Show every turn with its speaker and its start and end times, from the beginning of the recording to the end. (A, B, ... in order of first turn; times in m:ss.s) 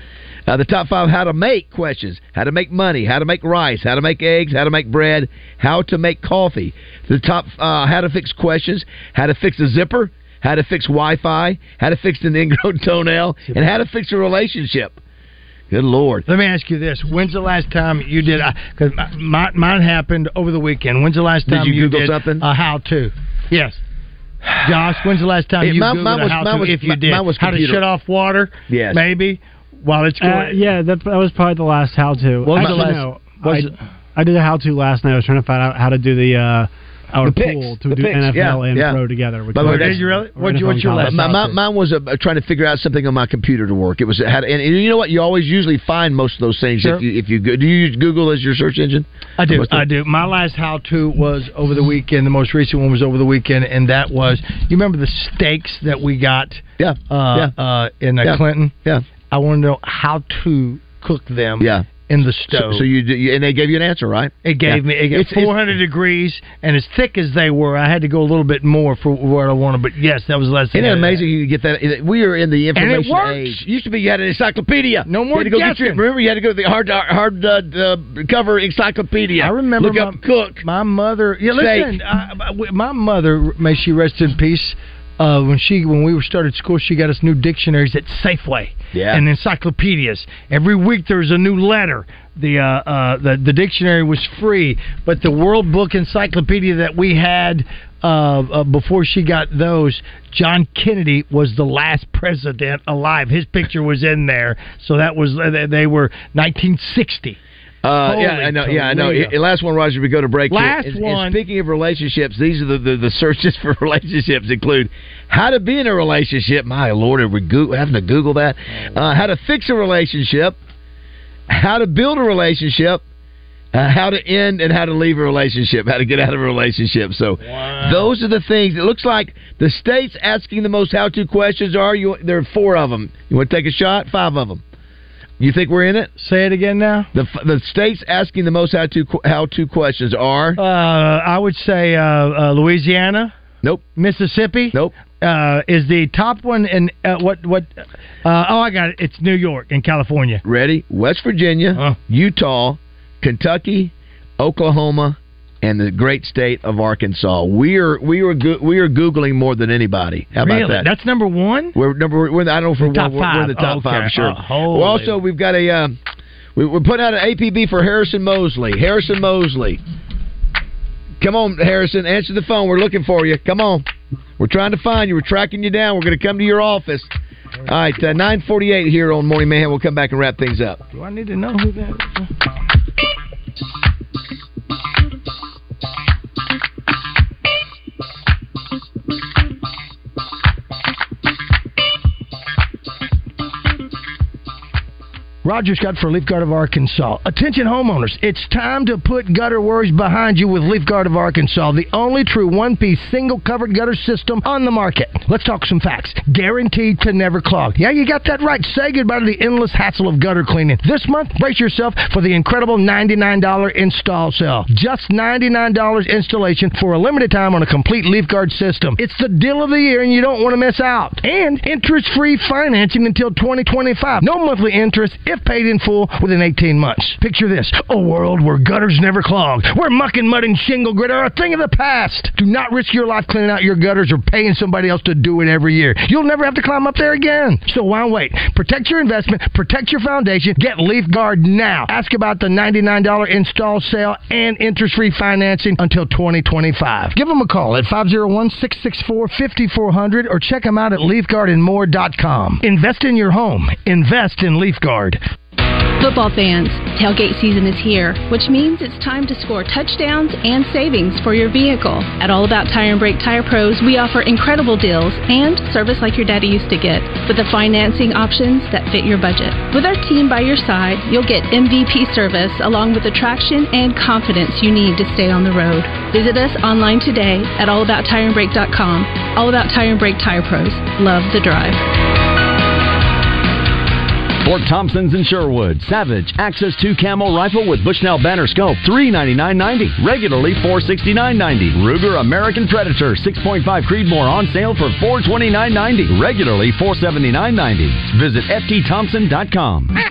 0:00.5-0:15.0 A
0:15.7-0:16.3 A
0:16.3-0:23.8 B
0:21.5-0:22.4 A
0:24.6-0:30.6 B
0:25.6-0:27.8 A
0:28.7-0:29.0 A
0:30.2-0:41.5 C
0:32.4-0:33.0 B
0:32.5-0:33.7 A
0:37.2-0:39.0 A
0:39.5-0:40.0 A
0:39.6-0:41.5 B
0:41.0-0:49.9 A
0:49.4-0:58.7 B
0:56.8-0:57.5 A
0:58.2-0:59.0 A
0:59.3-1:02.9 B
1:01.6-1:01.9 A
1:02.5-1:05.6 A
1:04.4-1:11.2 B
1:10.7-1:20.6 A
1:12.8-1:13.6 B
1:15.1-1:16.0 B
1:19.4-1:47.4 B
1:21.5-1:22.0 A
1:28.9-1:29.2 A
1:47.8-2:00.6 A
1:48.0-1:49.4 B
1:50.5-1:51.4 B
2:01.5-2:03.0 A
2:03.7-2:14.6 A
2:07.5-2:08.0 B
2:15.4-2:16.1 A
2:16.2-2:17.1 B
2:17.1-2:20.6 A
2:20.6-2:23.3 B
2:24.0-2:27.7 B
2:28.2-2:30.4 B
2:30.4-2:40.9 A
2:40.4-2:41.8 B
2:41.8-2:46.0 A
2:42.8-2:45.2 B
2:46.6-2:49.8 A
2:51.2-2:53.9 A
2:54.4-2:57.1 A
2:57.7-3:00.8 A
3:00.9-3:02.3 B
3:15.4-4:15.2 B
4:16.0-4:41.8 D
4:44.4-4:59.9 E